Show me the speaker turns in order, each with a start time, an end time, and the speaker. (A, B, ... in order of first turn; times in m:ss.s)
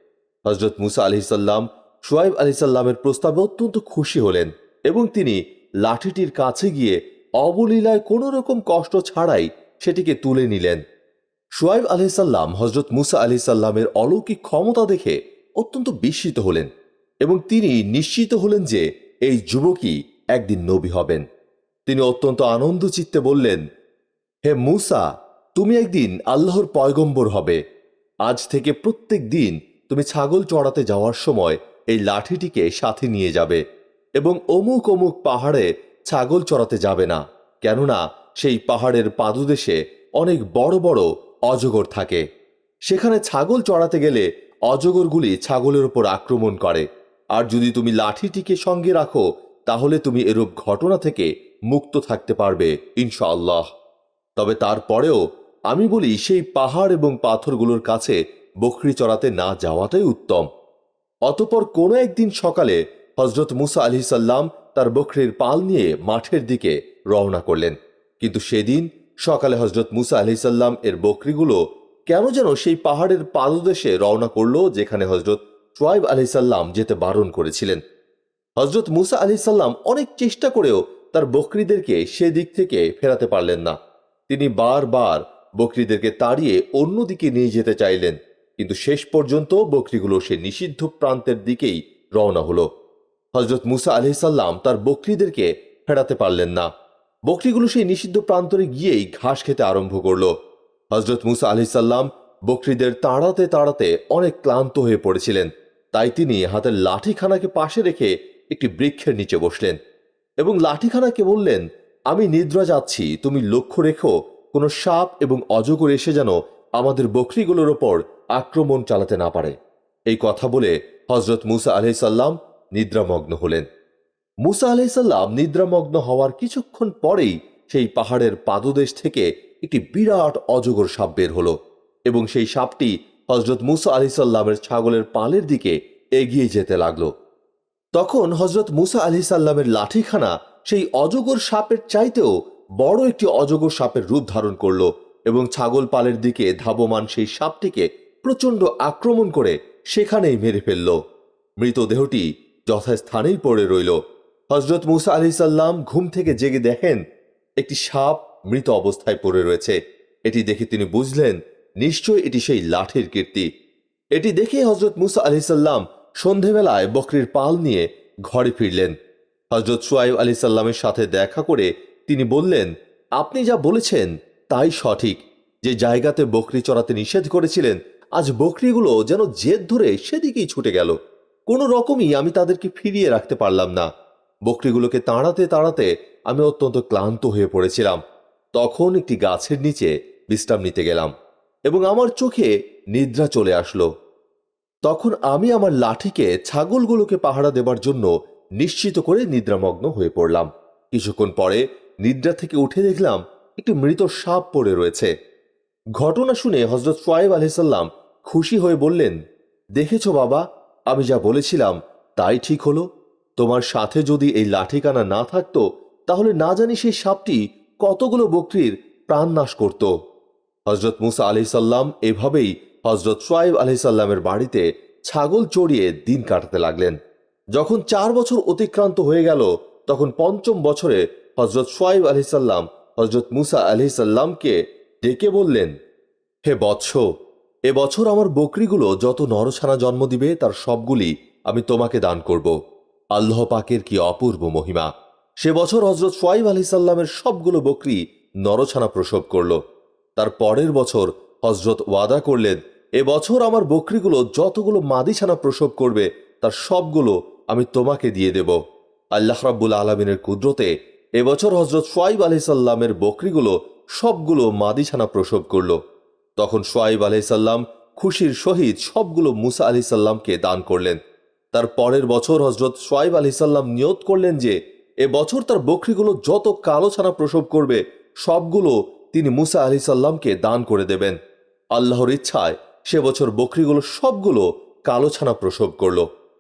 0:00.5-0:10.8 A
0:11.6-0:16.7 A
0:17.2-0:21.2 A
0:21.9-0:23.6 A
0:24.5-0:27.6 A
0:28.2-0:33.6 A
0:34.2-0:42.2 A
0:42.9-0:53.7 A
0:54.4-1:00.5 A
1:01.3-1:11.6 A
1:12.1-1:17.8 A
1:18.6-1:23.8 A
1:24.3-1:32.7 A
1:33.4-1:36.7 A
1:37.3-1:40.3 A
1:40.9-1:49.8 A
1:50.4-1:59.6 A
2:00.1-2:03.7 A
2:04.4-2:11.6 A
2:12.1-2:17.1 A
2:18.0-2:22.3 A
2:22.8-2:31.0 A
2:31.6-2:34.0 A
2:34.5-2:37.0 A
2:37.6-2:43.5 A
2:44.1-2:48.9 A
2:49.5-3:00.9 A
3:01.5-3:03.9 A
3:04.5-3:08.0 A
3:08.6-3:11.1 A
3:11.7-3:13.9 A
3:14.8-3:25.1 A
3:26.0-3:29.2 A
3:29.8-3:32.9 A
3:33.4-3:39.9 A
3:40.7-3:47.0 A
3:47.5-3:55.7 A
3:56.5-3:57.0 A
3:57.7-4:02.5 A
4:03.1-4:04.9 A
4:05.4-4:09.6 A
4:10.2-4:18.6 A
4:19.2-4:25.8 A
4:26.4-4:31.0 A
4:31.5-4:41.2 A
4:41.7-4:46.0 A